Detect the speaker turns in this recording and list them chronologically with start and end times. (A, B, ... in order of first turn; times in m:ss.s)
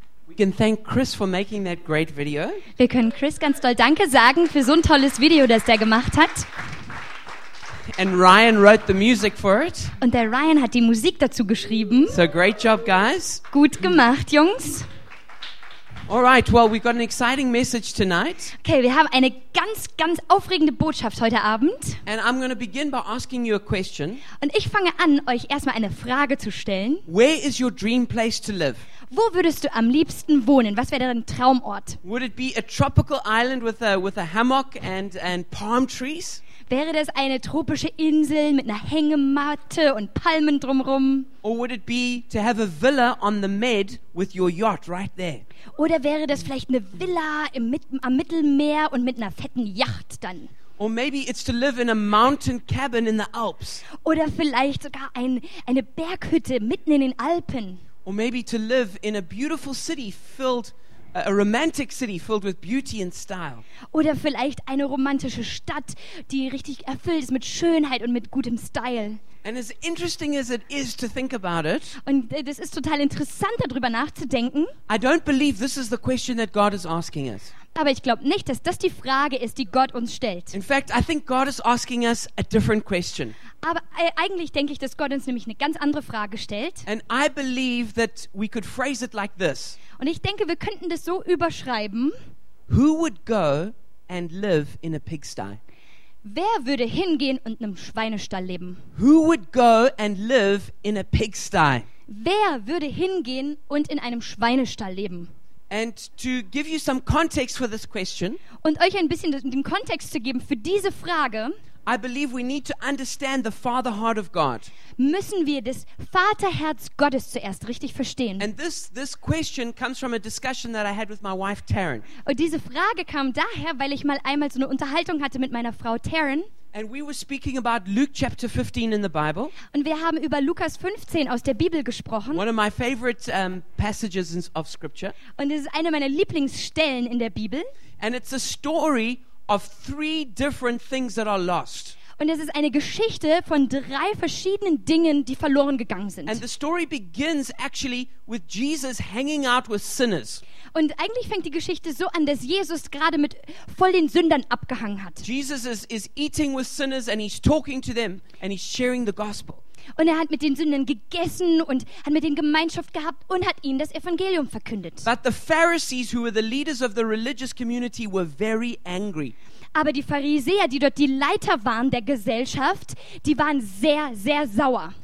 0:00.3-0:02.6 A
0:02.8-0:06.5 B
0:07.9-0:10.0 A
0:10.0-0:12.2 B
0:12.1-0:13.4 A
0:13.5-0:14.9 B
0:16.1-0:18.5 A
0:18.6-0:22.0 B
0:22.0-0:24.2 A
0:24.4-0:27.0 B
0:27.1-0:28.8 A
0:29.1-0:32.0 B
0:32.0-0:36.4 A
0:36.7-0:41.3 B
0:41.4-0:45.4 A
0:45.8-0:50.5 B
0:50.8-0:53.8 A
0:53.9-0:57.8 B
0:58.0-1:03.6 A
1:03.9-1:09.2 B
1:09.4-1:12.0 A
1:12.0-1:14.7 B
1:14.9-1:17.5 A
1:17.7-1:20.6 B
1:20.5-1:23.3 A
1:23.6-1:26.8 B
1:26.8-1:29.8 A
1:30.0-1:32.1 B
1:32.7-1:35.6 A
1:36.2-1:38.8 B
1:38.9-1:41.8 A
1:42.1-1:45.3 B
1:45.7-1:48.4 A
1:48.6-1:51.6 B
1:51.8-1:54.7 A
1:55.0-1:58.5 B
1:58.4-2:02.1 A
2:02.2-2:06.5 B
2:06.7-2:09.5 A
2:09.7-2:12.4 B
2:12.3-2:15.2 A
2:15.3-2:17.7 B
2:18.0-2:22.0 A
2:22.2-2:26.4 B
2:26.2-2:30.4 A
2:30.7-2:35.2 B
2:35.2-2:39.6 A
2:40.0-2:45.1 B
2:45.0-2:49.3 A
2:49.8-2:55.0 B